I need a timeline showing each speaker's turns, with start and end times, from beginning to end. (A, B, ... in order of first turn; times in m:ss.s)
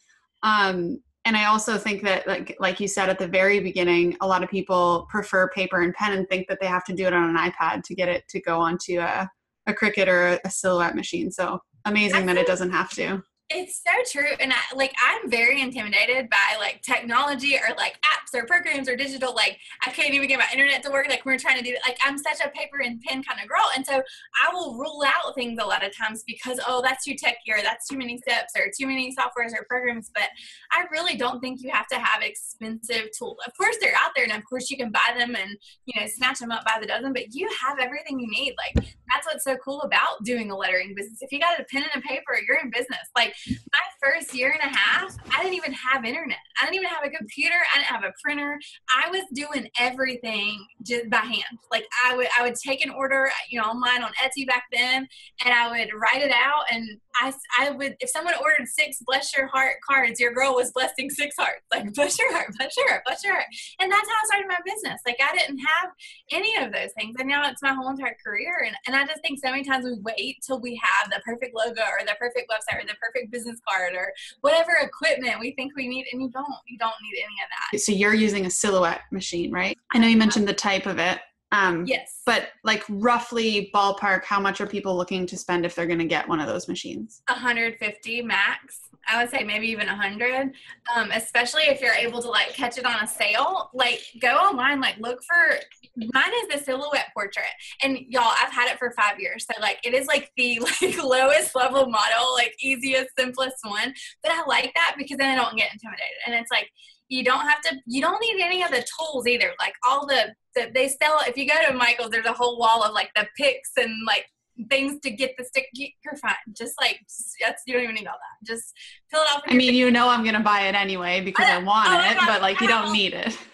0:00.4-0:13.2 A
0:12.1-0:12.5 B
0:13.5-1:17.7 B
1:17.7-1:27.2 A
1:20.0-1:20.4 B
1:21.8-1:22.3 B
1:27.3-1:59.9 B
1:59.4-2:03.4 A
2:01.3-2:03.0 B